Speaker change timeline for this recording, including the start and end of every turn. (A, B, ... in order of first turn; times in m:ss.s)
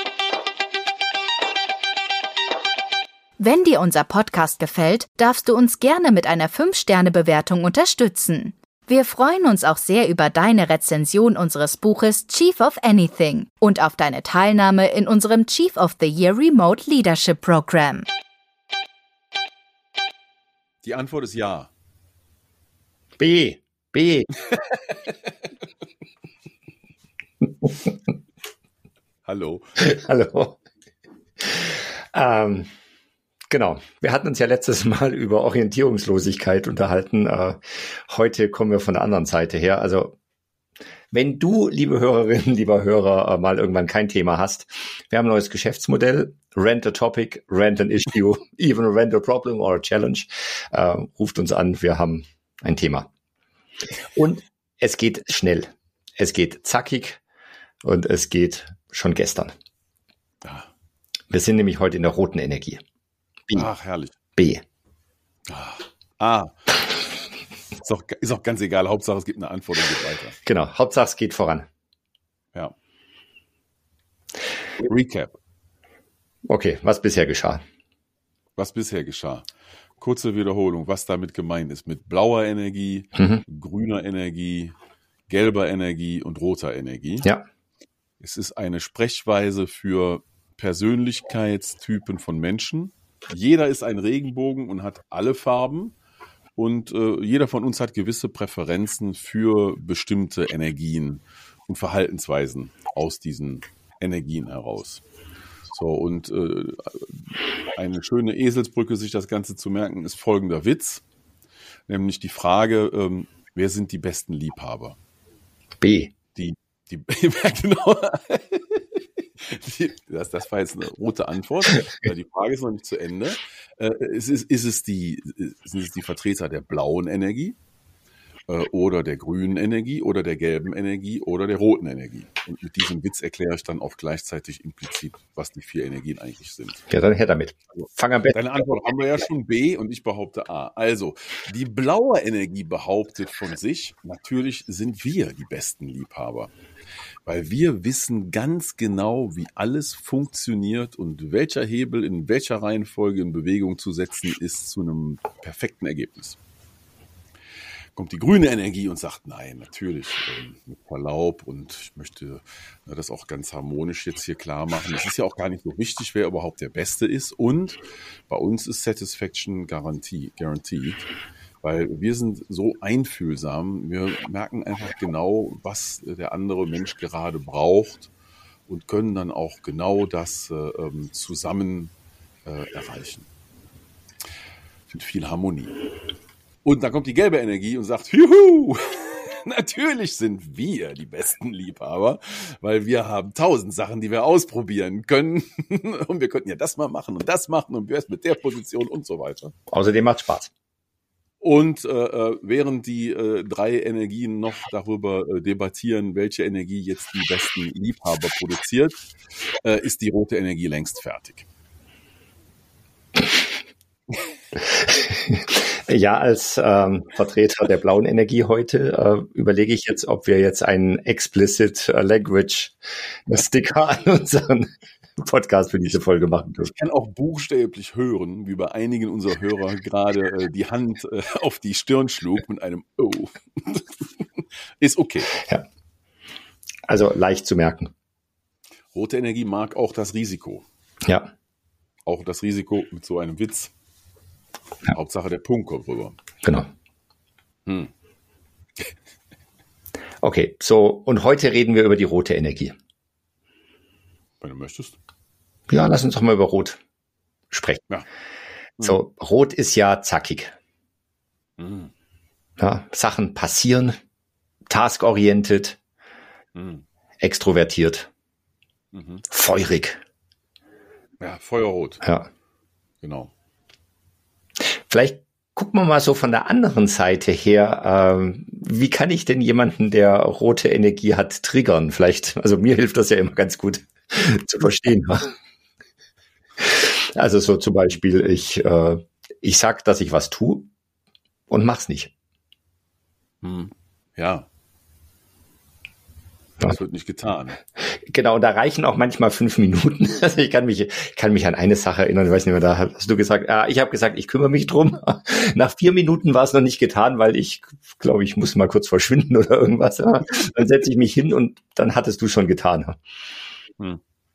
0:03.4-0:18.0 A
0:20.8-0:21.7 B
0:23.2-0:24.3 C
0:24.5-0:25.1 B
0:27.6-0:27.9 C
0:29.2-0:29.8 B
0:29.8-0:30.6 C
0:31.4-0:32.7 C
0:33.5-0:40.2 C
0:41.1-0:53.1 C
0:54.1-0:57.2 C
0:57.8-0:59.5 C
1:01.3-1:02.8 C
1:03.5-1:04.1 B
1:04.4-1:04.6 C
1:05.5-1:06.5 B
1:07.8-1:10.4 B
1:10.4-1:11.7 C
1:14.8-1:15.4 B
1:16.5-1:17.6 C
1:18.6-1:19.5 B
1:20.0-1:24.7 B
1:23.2-1:23.4 C
1:25.3-1:27.3 B
1:28.2-1:35.9 B
1:36.6-1:45.0 B
1:45.7-1:51.0 B
1:51.9-1:55.0 B
1:55.8-1:56.1 C
1:56.4-2:07.6 B
2:08.5-2:16.8 B
2:16.9-2:18.9 C
2:18.3-2:26.5 B
2:27.2-2:36.4 B
2:37.9-2:51.1 B
2:51.6-2:58.1 B
2:58.7-3:01.9 B
3:02.4-3:03.3 B
3:04.9-3:05.8 B
3:06.6-3:19.5 B
3:19.7-3:20.5 C
3:21.4-3:29.0 B
3:29.6-3:31.5 B
3:34.7-3:46.7 C
3:46.6-3:55.3 B
3:55.4-3:55.6 C
3:56.9-3:57.9 C
3:58.9-4:00.6 B
4:02.0-4:03.7 B
4:04.9-4:06.2 B
4:07.6-4:07.9 B
4:10.2-4:12.7 C
4:14.4-4:15.0 B
4:15.7-4:16.8 C
4:17.5-4:17.8 C
4:18.8-4:20.5 C
4:21.6-4:21.9 B
4:22.6-4:24.0 C
4:24.7-4:25.8 C
4:26.5-4:26.8 B
4:27.2-4:28.1 C
4:28.9-4:29.2 B
4:29.3-4:30.0 C
4:31.2-4:32.0 B
4:32.0-4:32.3 C
4:33.0-4:33.3 B
4:34.9-4:45.3 C
4:46.6-4:50.7 C
4:51.5-4:52.1 C
4:53.4-4:54.5 B
4:56.6-4:57.6 B
4:57.8-5:13.0 C